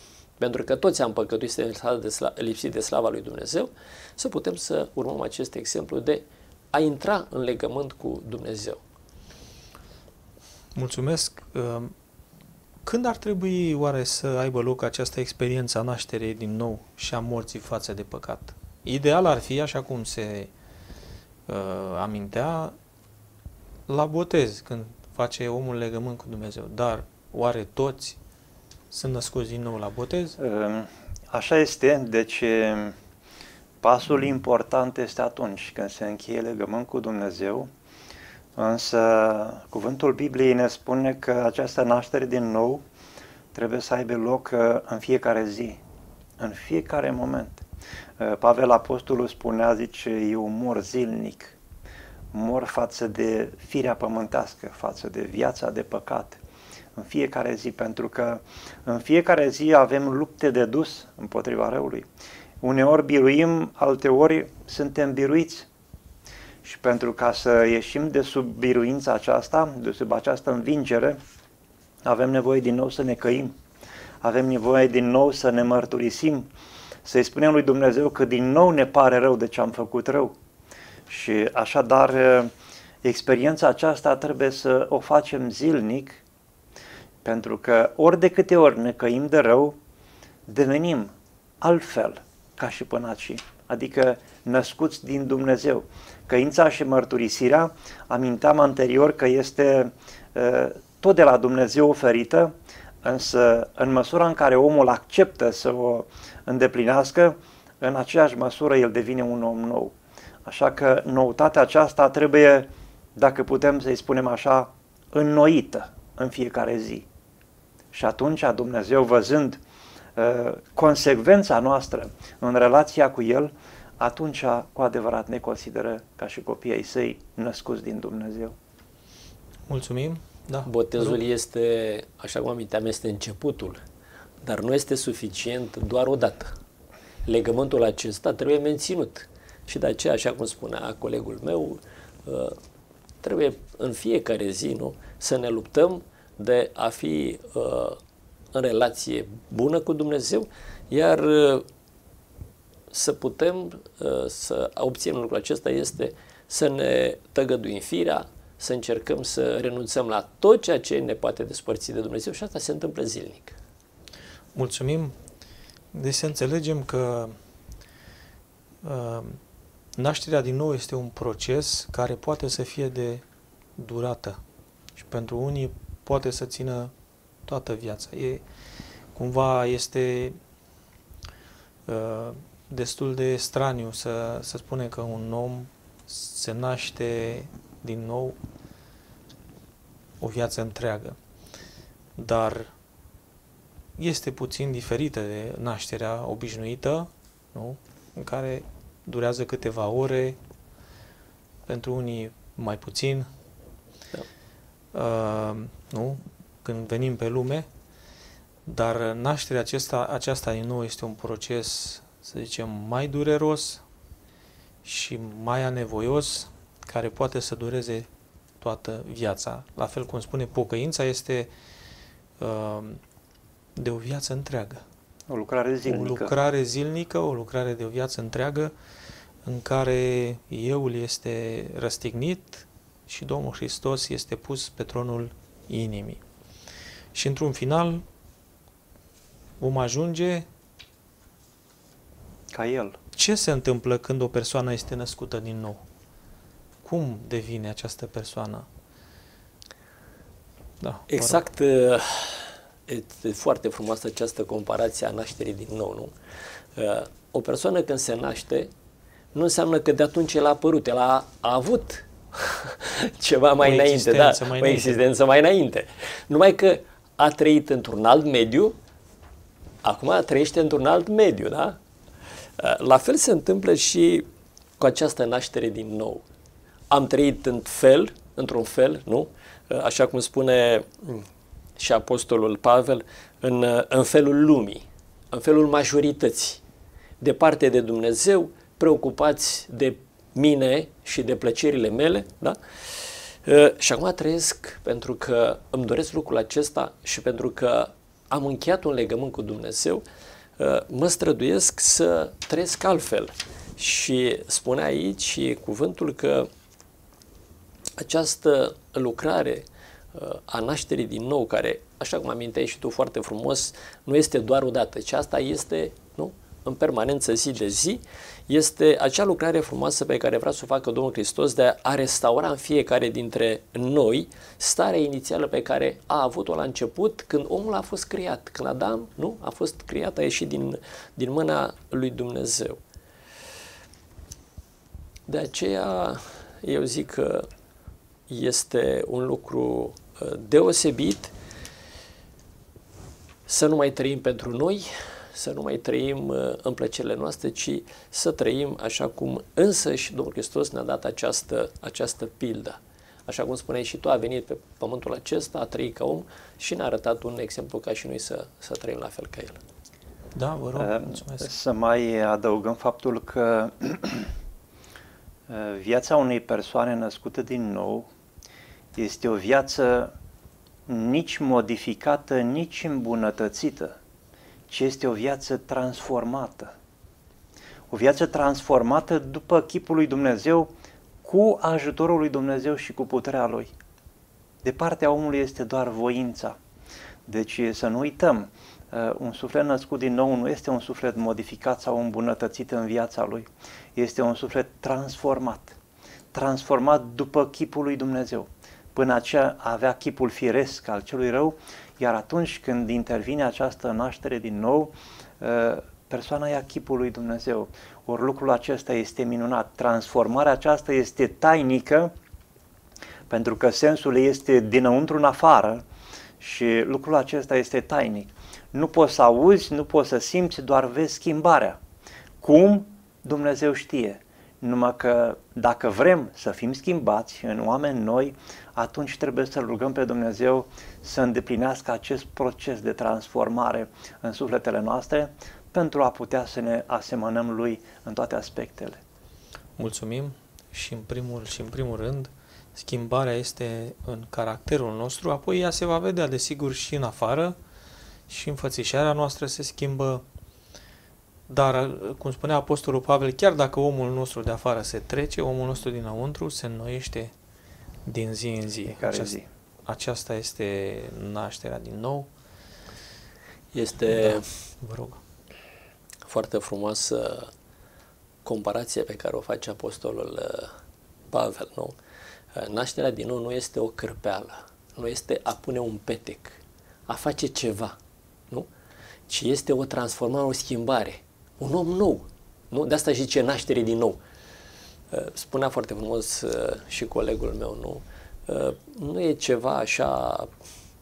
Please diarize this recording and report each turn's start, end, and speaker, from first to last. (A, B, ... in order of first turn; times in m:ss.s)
0:00.4-0:08.8 A
0:10.7-0:11.9 B
0:12.8-0:20.5 B
0:21.5-0:22.7 B
0:23.9-0:28.2 B
0:28.9-0:30.4 B
0:30.4-0:32.9 C
0:33.8-0:37.7 C
0:38.6-0:42.8 C
0:43.5-0:45.8 C
0:46.4-0:47.6 C
0:48.2-0:51.6 C
0:52.3-0:56.4 C
0:57.0-1:02.1 C
1:02.6-1:05.7 C
1:06.6-1:11.2 C
1:12.0-1:13.5 C
1:14.2-1:16.5 C
1:17.0-1:20.3 C
1:21.1-1:22.5 C
1:23.0-1:26.2 C
1:27.2-1:29.8 C
1:30.5-1:57.0 C
1:57.9-1:59.6 C
2:00.2-2:08.5 C
2:09.7-2:11.2 B
2:10.6-2:13.8 A
2:14.4-2:16.5 A
2:17.2-2:22.6 A
2:23.2-2:28.0 A
2:28.5-2:31.6 A
2:32.9-2:43.6 A
2:44.5-2:45.1 B
2:45.9-2:47.3 B
2:48.8-2:49.4 B
2:50.0-2:53.2 B
2:53.8-2:54.4 B
2:55.0-2:56.9 B
2:57.4-2:58.4 B
2:59.1-3:00.4 B
3:01.8-3:08.4 B
3:10.2-3:11.2 B
3:12.2-3:12.7 B
3:14.0-3:20.4 B
3:21.7-3:23.3 B
3:24.9-3:27.7 B
3:28.6-3:33.8 B
3:34.8-3:38.1 B
3:38.6-3:41.5 B
3:42.4-3:43.0 B
3:43.8-3:44.8 B
3:45.3-3:46.3 C
3:45.8-3:48.7 B
3:49.4-3:56.2 B
3:57.1-3:58.0 B
3:59.6-4:00.4 B
4:02.5-4:03.0 C
4:03.1-4:05.8 B
4:06.8-4:08.7 B
4:10.8-4:11.4 B
4:11.1-4:16.1 A
4:16.8-4:18.7 A
4:19.3-4:28.8 A
4:23.6-4:25.0 B
4:29.8-4:31.8 A
4:32.6-4:34.3 A
4:34.8-4:36.2 A
4:36.9-4:41.3 A
4:41.8-4:46.6 A
4:47.2-5:00.0 A
5:00.6-5:06.5 A
5:08.0-5:32.8 A
5:35.3-5:37.5 A
5:38.3-5:41.3 A
5:43.5-5:59.6 A
6:00.3-6:01.5 B
6:00.8-6:04.3 C
6:05.5-6:08.1 C
6:09.0-6:10.1 C
6:10.9-6:14.0 C
6:14.7-6:16.7 C
6:17.9-6:20.7 C
6:21.2-6:23.7 C
6:24.6-6:26.6 C
6:27.3-6:35.8 C
6:36.3-6:52.1 C
6:53.3-6:55.8 C
6:56.4-7:01.8 C
7:02.4-7:19.0 C
7:19.8-7:27.6 B
7:28.3-7:30.2 B
7:31.5-7:37.3 B
7:38.0-7:42.3 B
7:38.9-7:39.4 C
7:43.7-7:44.5 A
7:44.1-7:45.2 B
7:46.3-7:47.5 A
7:48.4-7:50.7 A
7:51.3-7:51.9 A
7:52.5-7:58.0 A
7:59.3-8:04.2 A
8:05.1-8:10.5 A